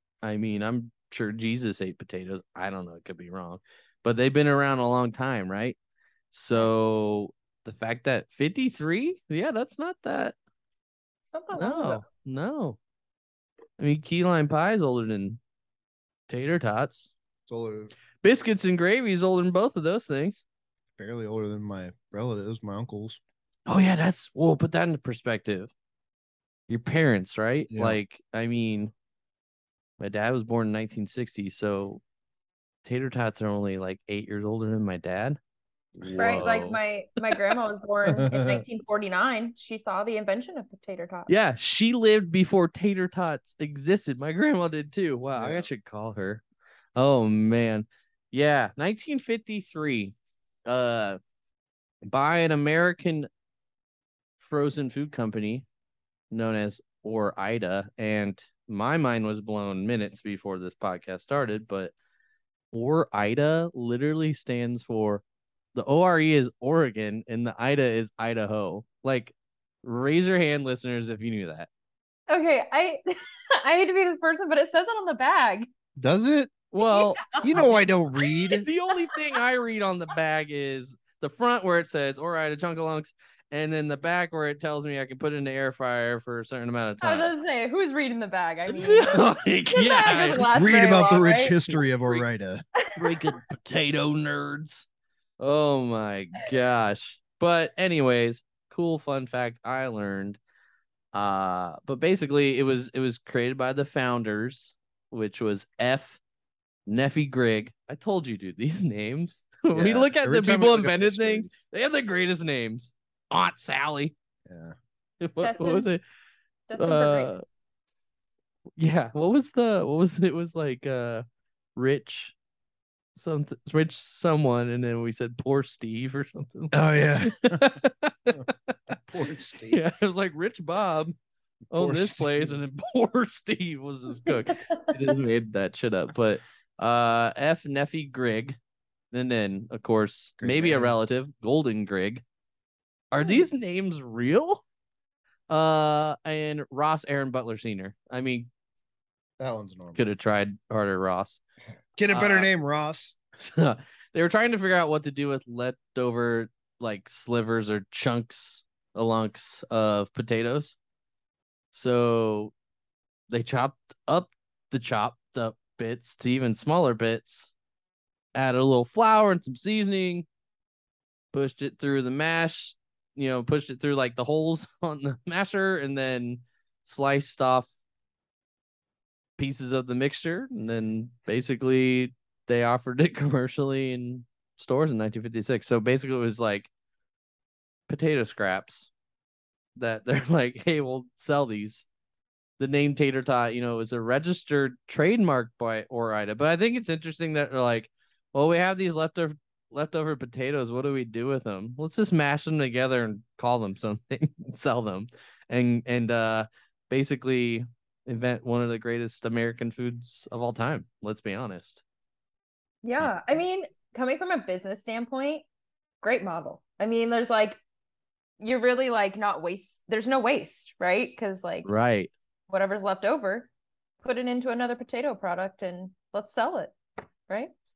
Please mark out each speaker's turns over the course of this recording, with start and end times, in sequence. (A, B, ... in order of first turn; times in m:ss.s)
0:00.2-0:05.8 A
0:06.3-0:10.4 A
0:11.3-0:12.0 B
0:11.5-0:12.8 A
0:13.8-0:15.4 A
0:16.3-0:17.1 A
0:17.5-0:17.9 C
0:18.2-0:20.4 A
0:21.0-0:23.2 C
0:23.7-0:25.7 A
0:26.7-0:28.9 A
0:27.7-0:28.0 C
0:30.0-0:32.0 A
0:32.8-0:35.4 A
0:36.0-0:36.6 C
0:36.0-0:37.5 A
0:36.2-0:41.3 B
0:38.1-0:38.6 C
0:41.3-0:46.4 A
0:45.4-0:45.7 C
0:47.0-0:50.1 A
0:50.6-0:51.2 A
0:52.0-0:53.3 A
0:54.4-0:55.6 A
0:56.3-1:01.9 A
1:02.7-1:05.2 A
1:05.7-1:11.7 A
1:12.3-1:15.7 B
1:16.0-1:16.6 C
1:16.7-1:17.7 A
1:16.8-1:17.6 B
1:17.4-1:18.6 C
1:18.6-1:27.3 A
1:27.0-1:31.6 B
1:28.7-1:30.5 A
1:30.5-1:32.6 C
1:32.9-1:34.8 A
1:35.4-1:40.4 A
1:41.1-1:46.2 A
1:46.9-1:54.1 A
1:49.7-1:51.5 C
1:54.4-1:54.7 C
1:55.2-1:56.0 A
1:55.4-1:55.9 B
1:56.7-1:57.3 B
1:56.8-1:57.4 A
1:58.8-2:01.2 A
2:01.8-2:02.3 A
2:03.1-2:08.9 A
2:06.7-2:07.7 C
2:08.9-2:09.8 C
2:09.6-2:11.2 A
2:11.7-2:12.6 C
2:11.7-2:18.6 A
2:19.1-2:22.2 A
2:20.4-2:21.0 C
2:23.1-2:24.6 A
2:23.2-2:23.4 B
2:25.5-2:28.5 A
2:29.4-2:30.0 C
2:29.9-2:31.4 A
2:32.0-2:33.2 C
2:32.1-2:32.5 A
2:33.4-2:40.8 A
2:41.7-2:42.5 A
2:43.3-2:47.5 A
2:48.3-2:50.3 A
2:51.3-2:57.7 A
2:59.4-3:06.7 A
3:07.9-3:08.9 A
3:09.8-3:11.8 A
3:12.6-3:31.8 A
3:32.8-3:35.4 B
3:36.0-3:37.6 B
3:38.4-3:41.7 B
3:41.6-3:42.1 A
3:42.5-3:43.5 B
3:44.0-3:46.7 B